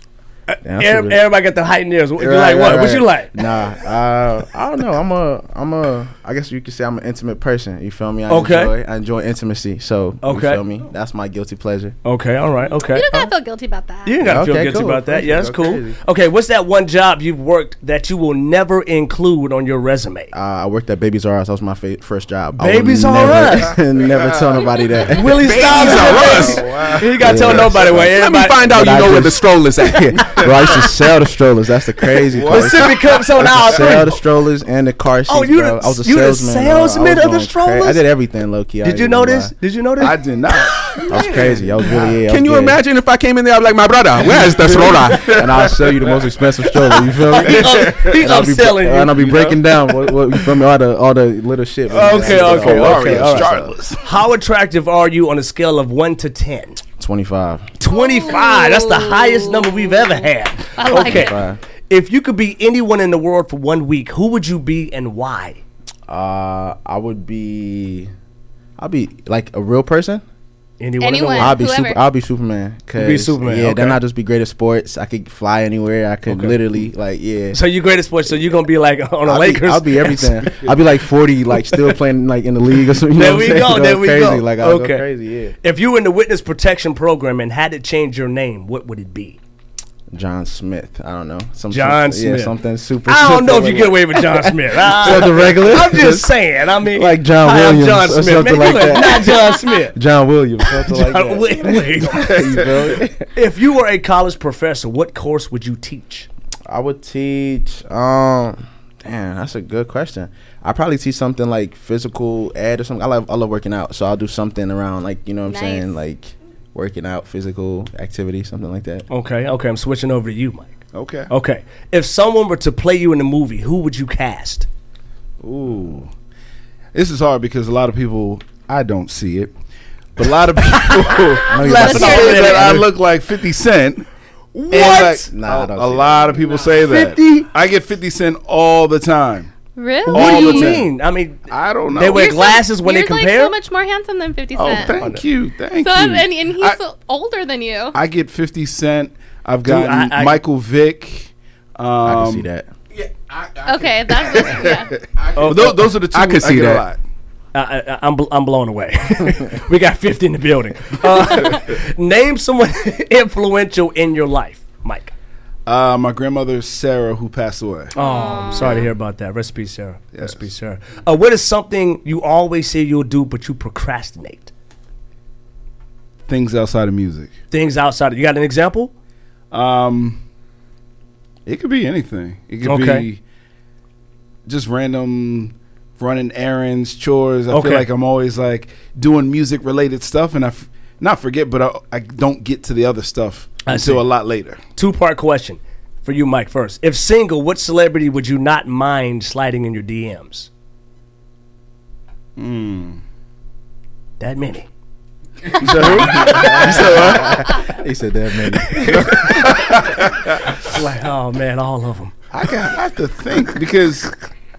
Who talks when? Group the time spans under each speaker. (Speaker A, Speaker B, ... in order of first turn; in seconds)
Speaker A: 0.5-3.4, 8.3-8.8, 10.2-10.6, 12.0-13.3, 14.1-20.3, 22.6-23.8, 25.1-29.3, 30.2-30.7, 32.5-34.2, 35.3-38.1, 38.8-40.2, 47.1-50.2, 51.9-56.8, 57.8-65.6, 70.8-71.6, 73.0-74.0, 76.3-76.9, 77.5-80.6, 83.1-85.1, 85.6-89.4, 91.7-92.5, 93.1-100.0, 100.6-102.6, 103.3-106.3, 119.1-120.8, 121.3-124.7, 131.5-132.9, 134.5-135.3, 136.9-137.4, 140.1-143.6, 144.7-145.2, 149.7-150.4, 155.3-155.8, 157.5-165.1, 167.9-174.5, 177.5-178.9, 182.6-183.1, 187.5-187.9, 193.7-194.0, 194.8-200.5, 204.2-204.7, 205.5-207.3, 208.8-209.7, 210.5-212.1
Speaker B: 0.6-1.3, 2.2-12.0, 14.2-16.0, 20.3-26.1, 27.2-39.5, 41.1-42.8, 45.2-53.7, 57.0-57.7, 61.0-61.6, 66.1-68.1, 68.8-70.2, 71.4-77.6, 79.2-85.6, 90.1-96.3, 96.8-103.3, 106.7-119.1, 131.5-132.8, 134.9-136.3, 152.0-152.7, 205.7-209.3
Speaker C: 12.9-14.2, 57.9-60.2, 60.8-61.4, 71.0-72.0, 115.5-115.9, 131.7-132.7, 139.8-140.8, 142.1-145.1, 145.8-148.0, 153.6-155.0, 168.0-168.9
Speaker D: 25.4-30.2, 41.1-45.3, 153.4-153.9, 156.1-156.8
Speaker E: 26.0-27.0, 32.3-33.9, 40.0-40.7, 44.7-45.2, 51.9-54.0, 120.9-121.3, 125.4-126.1, 126.9-129.5, 130.2-134.1, 134.7-139.5, 140.1-140.9, 141.5-142.4, 144.6-146.8, 147.9-152.5, 154.1-157.0, 165.7-167.9, 170.1-170.5, 176.3-177.3, 179.5-180.2, 181.5-183.2, 184.5-194.6, 202.4-203.0, 205.5-207.6, 209.1-210.1, 212.3-214.2